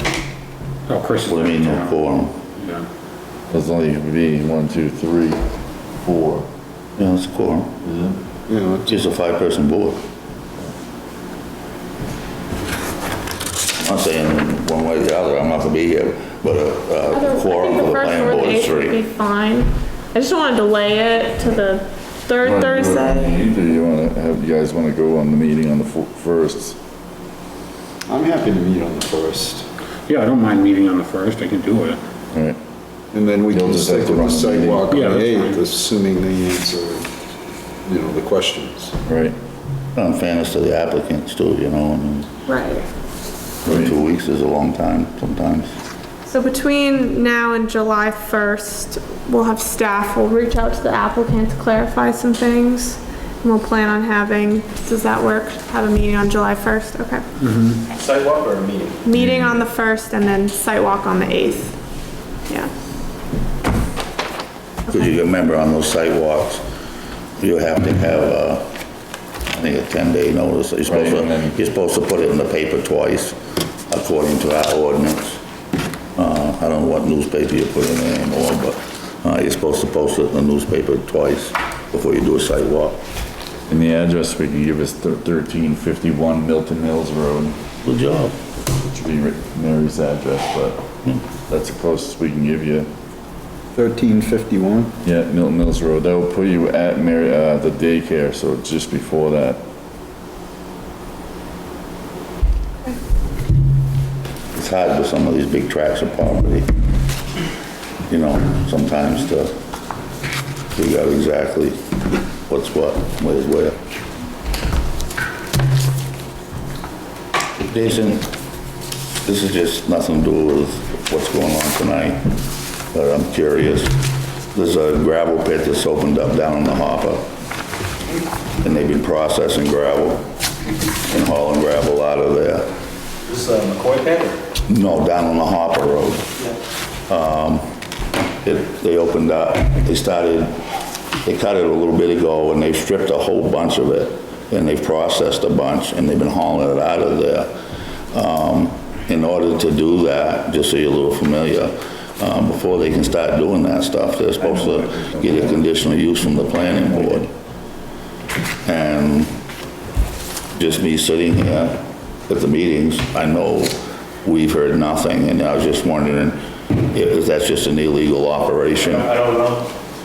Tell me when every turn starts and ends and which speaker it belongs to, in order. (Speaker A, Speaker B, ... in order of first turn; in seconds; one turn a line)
Speaker A: 0.9-2.0
Speaker B: 1.3-2.4
Speaker A: 2.6-2.9
Speaker C: 3.5-5.4
Speaker C: 6.0-6.5
Speaker B: 7.0-7.7
Speaker C: 7.8-8.2
Speaker D: 8.5-8.9
Speaker B: 8.9-10.0
Speaker B: 13.8-19.0
Speaker E: 17.1-23.4
Speaker C: 22.4-26.8
Speaker D: 28.1-29.7
Speaker A: 30.1-32.0
Speaker C: 32.3-32.6
Speaker D: 33.1-37.1
Speaker C: 33.5-35.1
Speaker A: 34.9-35.6
Speaker D: 37.9-39.0
Speaker C: 39.0-39.4
Speaker B: 40.0-42.3
Speaker E: 42.5-42.9
Speaker B: 43.6-45.7
Speaker C: 43.7-43.9
Speaker E: 46.2-57.2
Speaker A: 57.4-57.8
Speaker F: 57.9-59.0
Speaker E: 59.0-61.8
Speaker C: 59.2-59.4
Speaker B: 64.9-66.6
Speaker B: 67.4-68.7
Speaker B: 69.5-73.4
Speaker C: 70.9-71.5
Speaker B: 73.9-75.4
Speaker B: 76.2-83.0
Speaker C: 83.7-87.6
Speaker B: 87.8-88.3
Speaker C: 88.8-90.9
Speaker C: 91.5-92.9
Speaker D: 93.7-94.9
Speaker C: 95.0-99.6
Speaker B: 104.5-106.7
Speaker B: 108.1-109.5
Speaker B: 110.8-111.8
Speaker B: 112.5-113.8
Speaker B: 117.6-118.3
Speaker B: 119.2-122.4
Speaker B: 122.9-124.0
Speaker B: 124.5-127.3
Speaker B: 128.6-130.2
Speaker B: 131.1-132.7
Speaker F: 133.3-134.4
Speaker B: 134.7-136.3
Speaker B: 137.1-137.7
Speaker B: 138.4-140.6
Speaker B: 141.2-147.5
Speaker B: 148.1-157.3
Speaker B: 158.7-159.3
Speaker B: 160.6-169.2
Speaker F: 168.8-169.7